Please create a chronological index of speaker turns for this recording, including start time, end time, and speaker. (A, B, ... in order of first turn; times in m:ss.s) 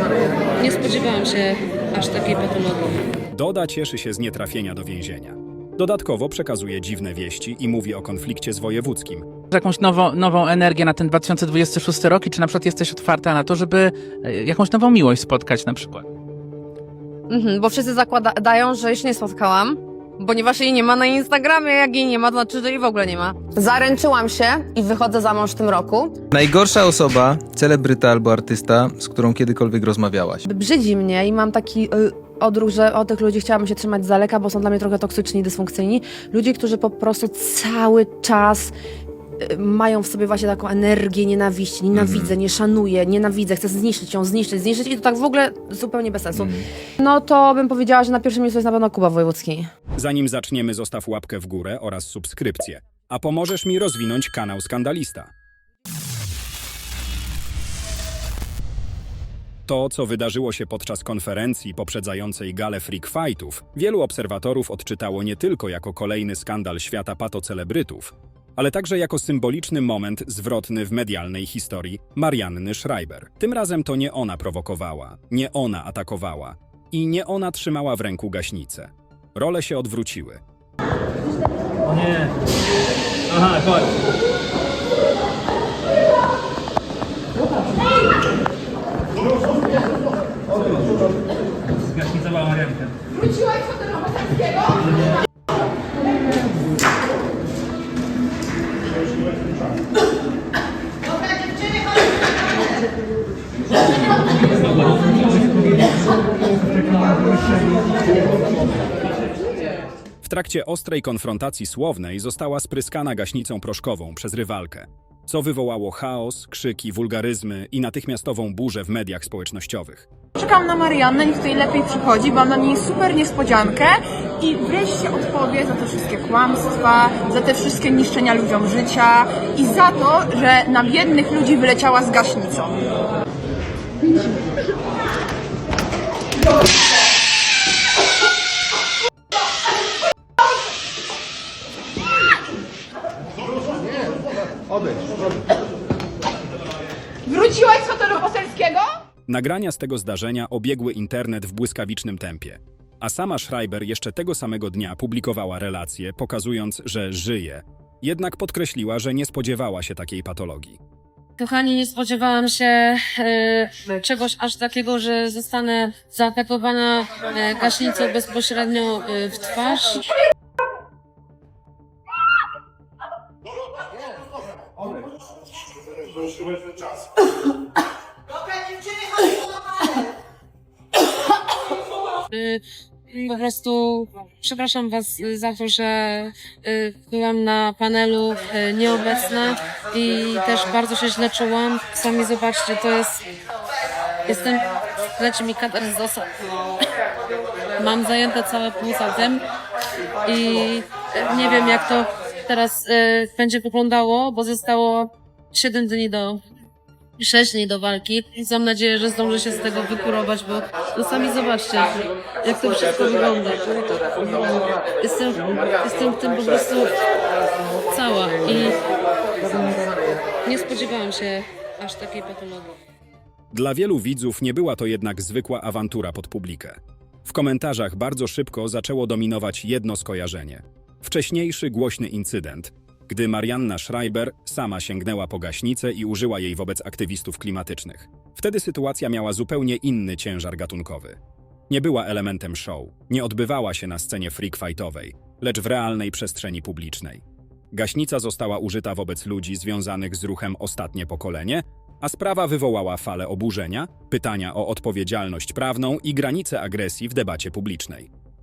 0:00.6-0:03.0 A
0:03.3-0:09.3 B
0:09.5-0:16.1 C
0:17.3-0:26.1 D
0:26.3-0:30.4 E
0:30.4-0:38.7 D
0:39.4-0:49.7 D
0:41.9-0:42.3 E
0:46.3-0:46.6 E
0:50.0-0:55.3 B
0:59.7-1:20.4 B
1:23.3-1:23.9 B
1:32.0-1:32.9 B
1:50.2-2:00.1 B
2:00.4-2:12.8 F
2:27.3-2:28.9 F
2:29.3-2:40.8 B
2:41.4-2:50.1 A
3:02.3-3:13.2 A
3:14.3-3:16.3 A
3:17.8-3:19.4 A
3:20.2-3:26.4 A
3:27.2-3:34.4 A
3:35.0-3:36.9 A
3:37.9-3:38.8 A
3:40.4-3:42.7 A
3:43.5-4:01.2 B
4:01.7-4:18.1 B